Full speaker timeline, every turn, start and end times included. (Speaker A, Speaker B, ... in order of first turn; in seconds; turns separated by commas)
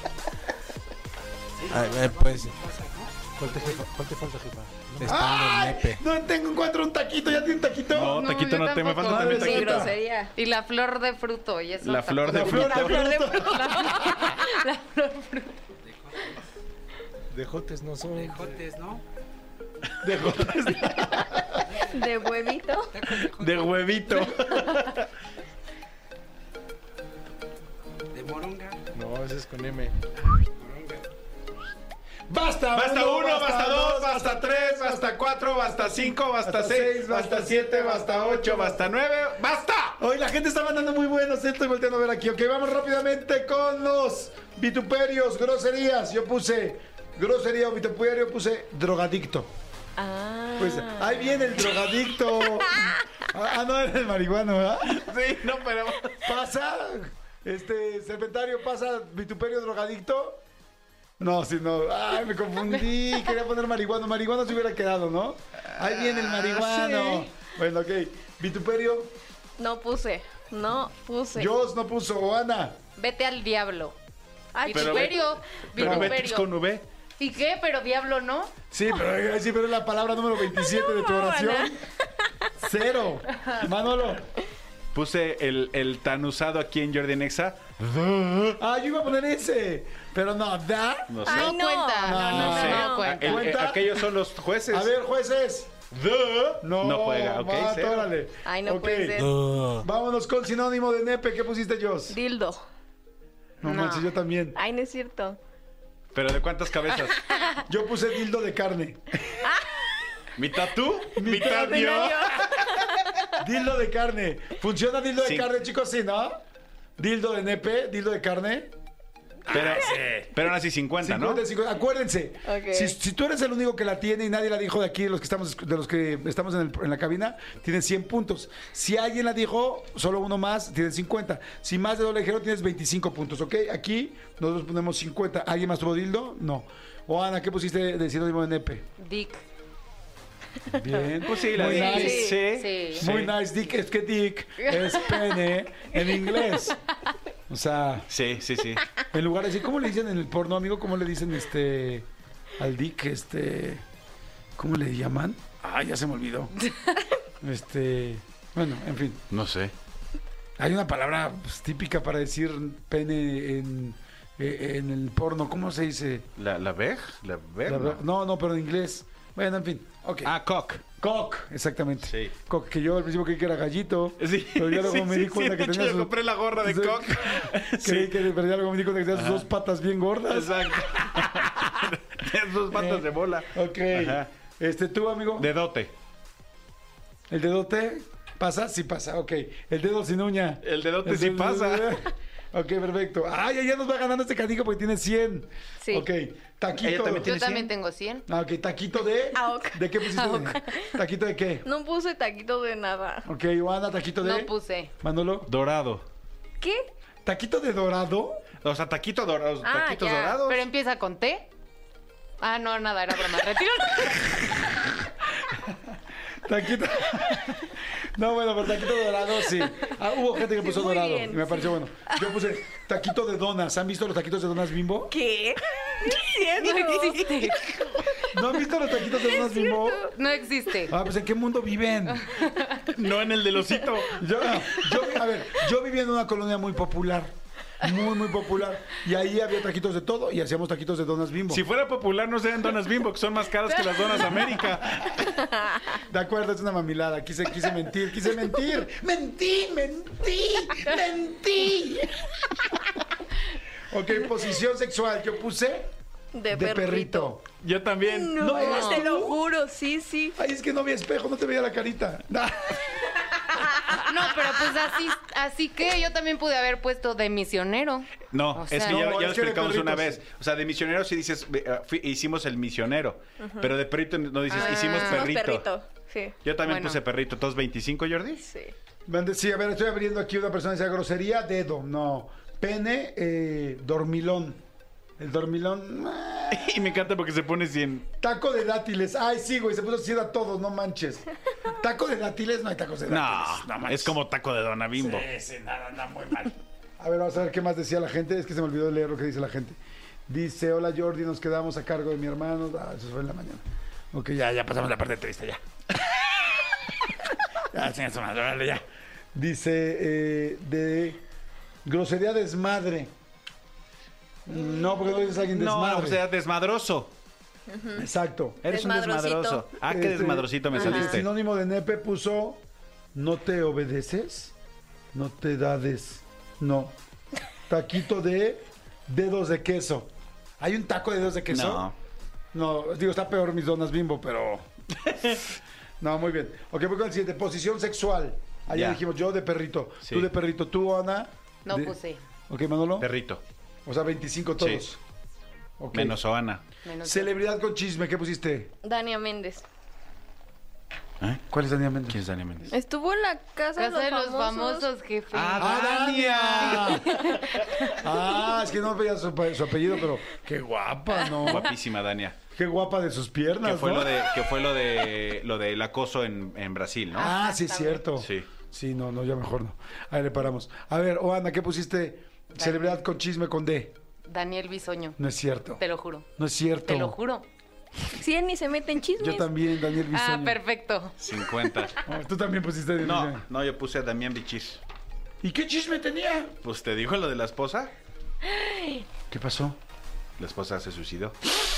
Speaker A: 1.6-4.0, Speaker B: 1.7-2.6, Speaker B: 3.4-6.0, Speaker C: 5.0-8.2, Speaker D: 7.9-9.9, Speaker E: 8.0-15.6, Speaker C: 9.0-9.9, Speaker F: 9.2-10.3, Speaker D: 11.8-13.0, Speaker C: 12.2-14.1, Speaker F: 12.7-14.5, Speaker A: 15.8-16.4, Speaker B: 17.3-18.6, Speaker A: 18.0-19.0, Speaker C: 20.0-21.6, Speaker D: 20.2-21.3, Speaker A: 21.7-21.9, Speaker F: 21.9-22.9, Speaker A: 22.9-24.2, Speaker D: 23.1-25.1, Speaker A: 28.1-28.9, Speaker B: 28.9-30.0, Speaker A: 30.6-31.0, Speaker C: 32.3-38.9, Speaker D: 32.7-40.0, Speaker C: 40.0-49.5, Speaker F: 50.0-51.6, Speaker C: 50.6-55.1, Speaker F: 52.6-53.0, Speaker D: 54.8-56.3, Speaker C: 56.2-60.4, Speaker C: 61.2-69.1, Speaker D: 65.7-67.2, Speaker F: 69.6-71.5, Speaker C: 71.3-72.8, Speaker E: 73.0-74.0, Speaker F: 74.5-75.3, Speaker E: 74.6-76.5, Speaker D: 74.7-76.8, Speaker C: 75.8-76.2, Speaker E: 77.2-78.5, Speaker C: 78.7-81.8, Speaker F: 80.5-82.5, Speaker C: 82.6-84.3, Speaker D: 84.9-88.6, Speaker C: 88.6-91.2, Speaker D: 91.1-91.6, Speaker F: 91.2-93.1, Speaker E: 91.3-93.5, Speaker C: 92.0-94.1, Speaker D: 92.3-94.9, Speaker C: 94.7-95.8, Speaker D: 95.9-98.1, Speaker C: 96.6-102.2, Speaker F: 98.4-99.4, Speaker B: 99.3-99.8, Speaker F: 102.1-102.6, Speaker C: 103.6-104.6, Speaker E: 103.6-104.1, Speaker F: 104.5-105.4, Speaker D: 106.1-107.2, Speaker C: 107.6-109.4, Speaker F: 109.4-109.7, Speaker D: 110.3-112.8, Speaker C: 111.1-112.4, Speaker F: 111.4-112.9, Speaker C: 113.3-116.4, Speaker D: 115.2-115.5, Speaker C: 117.0-118.7, Speaker C: 119.5-120.5, Speaker D: 119.5-121.4, Speaker C: 121.0-138.9, Speaker F: 122.4-123.0, Speaker E: 139.0-139.4, Speaker C: 140.7-142.4, Speaker D: 141.2-143.3, Speaker F: 141.6-142.4, Speaker E: 141.7-143.0, Speaker C: 143.0-146.8, Speaker C: 147.5-148.1, Speaker D: 148.1-148.8, Speaker C: 149.1-152.1, Speaker C: 152.6-153.8, Speaker C: 154.6-156.5, Speaker C: 157.4-159.2, Speaker D: 159.3-159.7, Speaker C: 160.6-166.3, Speaker D: 166.4-168.0, Speaker C: 167.7-170.3, Speaker D: 170.2-170.8, Speaker C: 171.0-181.7, Speaker D: 172.1-172.3, Speaker D: 174.2-178.3, Speaker D: 179.1-179.5, Speaker D: 180.3-184.3, Speaker C: 182.7-185.5, Speaker D: 185.4-185.9, Speaker C: 187.3-197.3, Speaker D: 190.6-192.0, Speaker F: 195.8-196.1, Speaker D: 196.8-197.7, Speaker E: 197.1-198.2, Speaker C: 198.3-201.6, Speaker F: 199.3-200.9, Speaker F: 201.6-203.3, Speaker C: 203.2-205.5, Speaker E: 204.2-204.9, Speaker D: 205.5-206.0, Speaker F: 206.6-206.9, Speaker C: 207.2-208.4, Speaker D: 208.6-210.6, Speaker F: 209.6-210.4, Speaker E: 210.4-211.5, Speaker E: 212.4-214.6, Speaker C: 215.5-225.1, Speaker F: 220.5-221.7, Speaker F: 225.1-228.3, Speaker E: 226.5-228.2, Speaker C: 228.3-230.1, Speaker F: 228.9-230.1, Speaker E: 230.1-230.9, Speaker C: 230.9-232.4, Speaker E: 232.1-232.8, Speaker D: 232.9-234.3, Speaker C: 234.1-241.6, Speaker D: 241.5-245.5, Speaker C: 244.2-245.1, Speaker C: 245.9-252.2, Speaker C: 253.9-255.9, Speaker F: 256.3-257.3, Speaker C: 256.5-257.4, Speaker D: 257.6-258.4, Speaker F: 258.0-260.4, Speaker C: 258.4-259.4, Speaker E: 258.6-259.1, Speaker C: 260.4-263.3, Speaker F: 263.5-264.0, Speaker E: 264.1-269.0, Speaker D: 268.3-275.7, Speaker C: 268.8-270.2, Speaker F: 273.4-273.7, Speaker F: 274.5-276.3, Speaker E: 274.5-275.3, Speaker D: 276.4-278.4, Speaker E: 276.6-277.0, Speaker F: 278.4-278.7, Speaker C: 279.1-284.6, Speaker C: 285.2-286.9, Speaker D: 286.5-288.1, Speaker C: 288.2-294.2, Speaker D: 293.1-295.3, Speaker C: 294.9-305.6, Speaker C: 307.6-311.2, Speaker C: 311.8-313.1, Speaker C: 314.4-316.2, Speaker D: 315.5-317.1, Speaker F: 317.7-318.1, Speaker C: 317.9-318.6, Speaker F: 318.6-319.7, Speaker D: 318.6-321.3, Speaker C: 319.8-322.6, Speaker F: 320.8-321.1, Speaker C: 323.1-324.5, Speaker C: 325.1-326.9, Speaker C: 327.7-331.9, Speaker D: 331.5-331.9, Speaker C: 332.5-334.7, Speaker D: 335.0-335.4, Speaker C: 336.0-342.0, Speaker D: 338.7-339.0, Speaker D: 340.0-340.3, Speaker E: 341.6-342.2, Speaker C: 342.5-343.1, Speaker D: 343.0-343.4, Speaker C: 343.9-345.0, Speaker C: 345.8-346.2, Speaker D: 345.9-346.6, Speaker E: 346.8-347.3, Speaker C: 347.0-348.7, Speaker F: 348.8-349.6, Speaker C: 351.5-352.2, Speaker D: 352.1-352.7, Speaker F: 352.7-354.9, Speaker E: 353.8-357.9, Speaker D: 355.3-357.2, Speaker C: 355.6-357.1, Speaker C: 358.0-361.7, Speaker D: 361.4-362.4, Speaker C: 362.5-364.3, Speaker D: 363.6-367.3, Speaker C: 367.1-373.9, Speaker E: 367.2-367.9, Speaker D: 368.2-368.5, Speaker E: 372.6-373.0, Speaker E: 374.3-375.2, Speaker C: 375.2-375.8, Speaker E: 375.8-376.2, Speaker C: 376.4-377.1, Speaker E: 376.8-377.5, Speaker F: 378.1-379.5, Speaker C: 379.2-380.6, Speaker E: 380.1-381.9, Speaker D: 381.2-381.9, Speaker C: 382.0-383.4, Speaker D: 383.0-384.8, Speaker C: 385.4-386.5, Speaker D: 386.6-387.9, Speaker F: 388.4-389.0, Speaker C: 389.3-389.8, Speaker D: 390.4-391.4